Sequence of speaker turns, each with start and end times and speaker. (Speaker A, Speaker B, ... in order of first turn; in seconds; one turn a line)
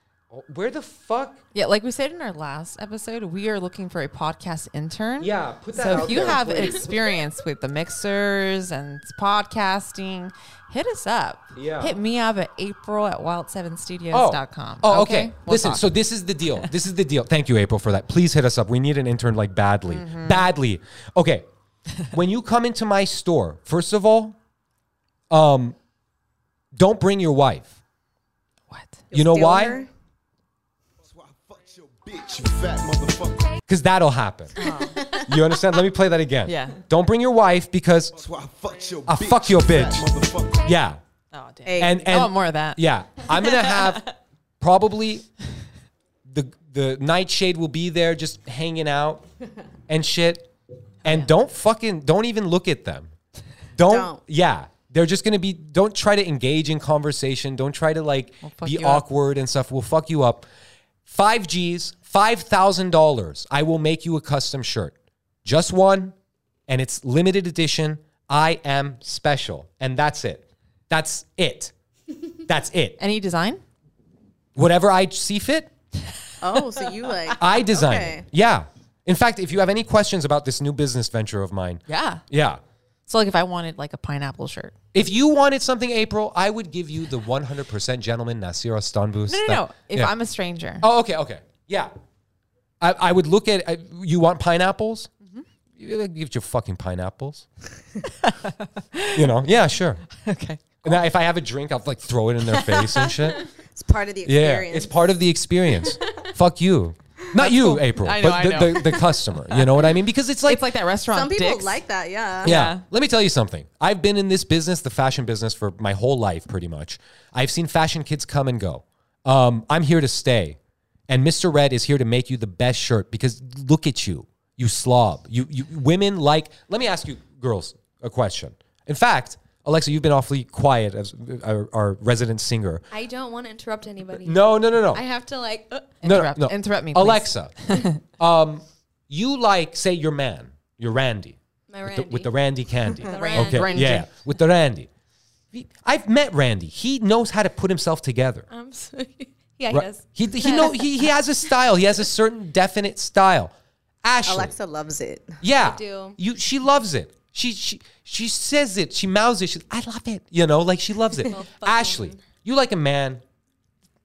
Speaker A: 0.3-1.4
Speaker B: 1.5-15.9
Speaker A: 5.2-6.9
Speaker A: 11.5-12.0
Speaker A: 14.1-21.4
Speaker B: 19.9-20.5
Speaker A: 22.1-24.4
Speaker A: 25.3-25.8
Speaker A: 26.7-27.7
Speaker B: 28.7-29.0
Speaker C: 29.1-29.9
Speaker A: 29.1-29.8
Speaker D: 31.0-33.6
Speaker A: 33.7-34.5
Speaker B: 34.6-35.0
Speaker C: 35.0-35.3
Speaker A: 35.2-38.1
Speaker B: 36.5-36.8
Speaker D: 38.1-40.8
Speaker A: 39.1-40.0
Speaker A: 40.6-41.0
Speaker B: 41.3-42.8
Speaker C: 41.7-42.1
Speaker A: 41.8-45.3
Speaker B: 43.4-44.0
Speaker A: 46.2-49.2
Speaker A: 49.9-50.5
Speaker A: 51.0-53.1
Speaker B: 51.0-51.3
Speaker A: 53.7-60.5
Speaker C: 53.8-54.2
Speaker B: 58.4-59.0
Speaker A: 61.0-66.1
Speaker A: 66.7-71.7
Speaker A: 72.5-73.0
Speaker B: 73.0-73.6
Speaker A: 74.5-75.7
Speaker C: 76.4-78.2
Speaker A: 77.4-82.6
Speaker B: 81.9-82.2
Speaker B: 83.1-84.7
Speaker A: 84.9-90.1
Speaker B: 89.3-90.8
Speaker A: 90.8-91.9
Speaker A: 92.8-95.1
Speaker A: 95.8-97.5
Speaker B: 98.2-99.3
Speaker A: 99.1-100.0
Speaker B: 100.2-101.0
Speaker A: 100.8-103.4
Speaker B: 102.5-103.1
Speaker C: 103.7-104.9
Speaker A: 104.2-110.7
Speaker B: 107.3-109.6
Speaker B: 110.4-111.8
Speaker C: 111.1-112.6
Speaker B: 112.4-112.8
Speaker A: 112.4-132.8
Speaker E: 132.9-136.0
Speaker A: 134.2-135.0
Speaker B: 136.0-138.0
Speaker A: 136.0-144.9
Speaker E: 141.7-142.3
Speaker E: 143.0-143.9
Speaker B: 143.1-144.1
Speaker A: 145.5-148.5
Speaker E: 148.5-151.1
Speaker A: 149.7-154.5
Speaker C: 154.2-155.4
Speaker A: 155.4-163.2
Speaker E: 155.6-156.2
Speaker E: 161.3-162.2